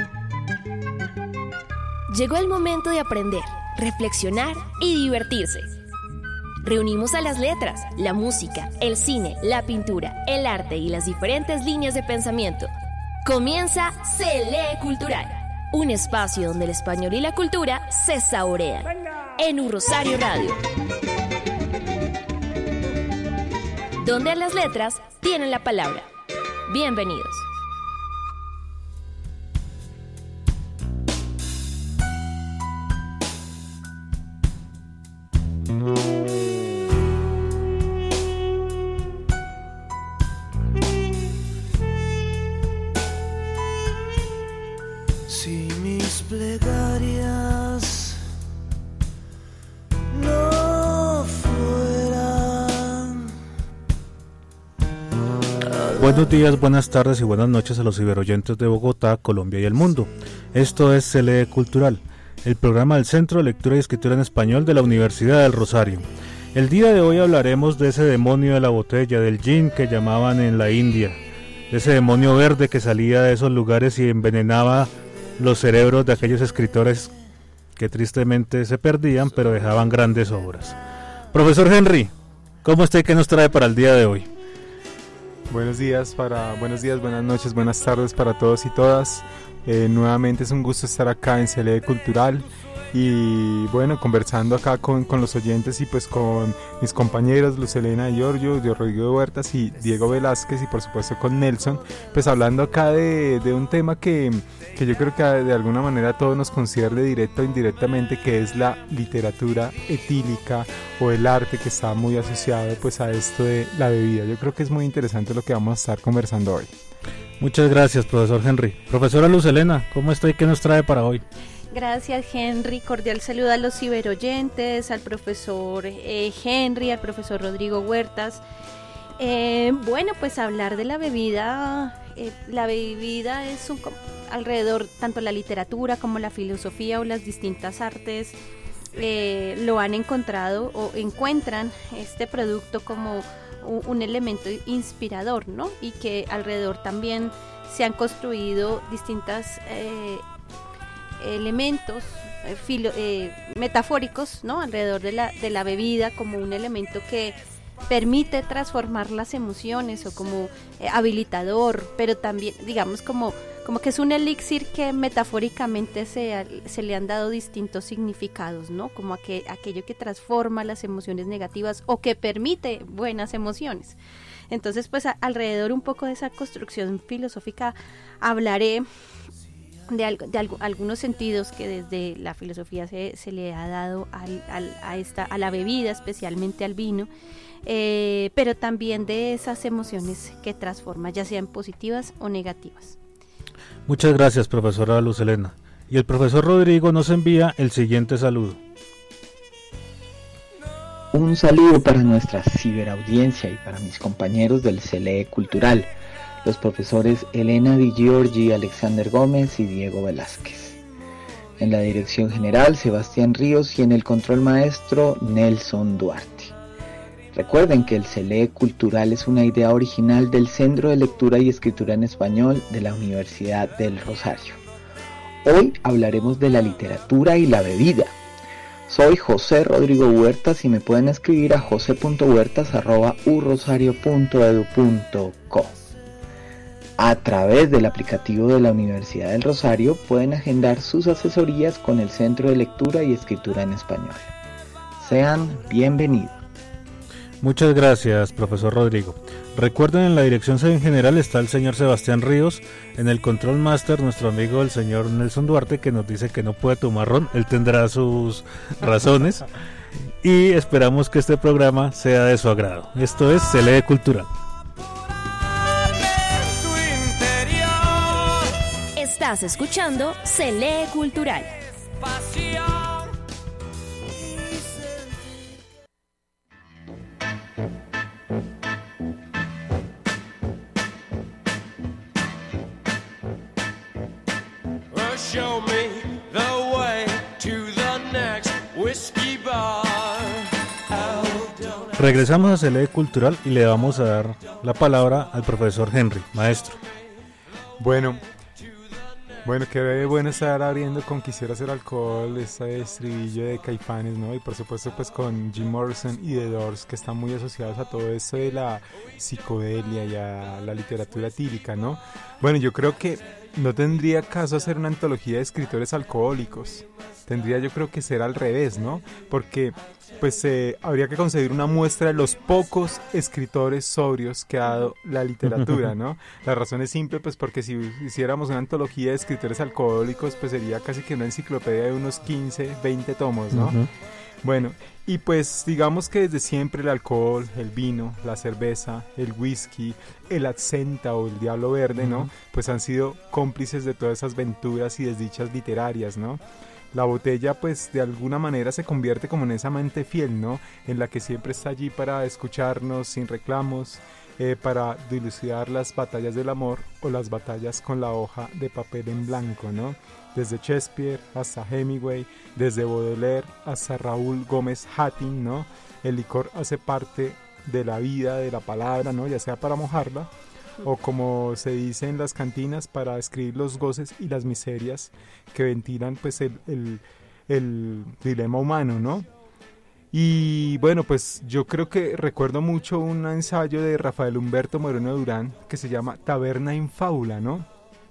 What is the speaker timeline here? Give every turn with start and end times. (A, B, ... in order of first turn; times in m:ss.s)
0:02.1-0:05.7 A
0:06.6-0:12.7 A
0:13.2-0:20.6 A
0:24.0-0:26.1 A
0:26.7-0:27.5 A
0:45.3-0:48.1 B
0:50.2-0:53.2 B
0:55.7-0:56.2 B
0:56.0-1:11.2 C
1:11.7-1:17.1 C
1:17.8-1:20.8 C
1:21.3-1:22.1 C
1:22.6-1:24.3 C
1:25.5-1:56.7 D
1:57.4-2:01.2 C
2:01.7-2:08.4 E
2:09.2-2:18.4 E
2:18.9-2:30.2 E
2:31.2-2:54.0 E
2:54.5-2:58.9 E
2:59.9-3:07.1 E
3:07.7-3:13.0 E
3:13.9-3:18.6 C
3:21.1-3:25.9 F
3:26.4-3:30.8 F
3:31.6-3:36.5 F
3:37.3-3:44.6 F
3:45.4-3:48.2 F
3:48.9-3:55.8 F
3:57.0-4:04.3 F
4:05.0-4:06.4 F
4:07.4-4:19.4 C
4:20.2-4:24.3 C
4:26.7-4:27.8 B
4:29.0-4:31.6 A
4:45.0-4:50.1 B
4:51.0-4:51.8 B
4:52.0-4:56.8 C
4:57.8-4:58.2 D
4:59.4-5:33.8 D
5:33.5-5:33.9 C
5:34.4-6:10.3 D
5:42.0-5:42.3 C
6:10.8-6:19.3 D
6:20.1-6:27.7 D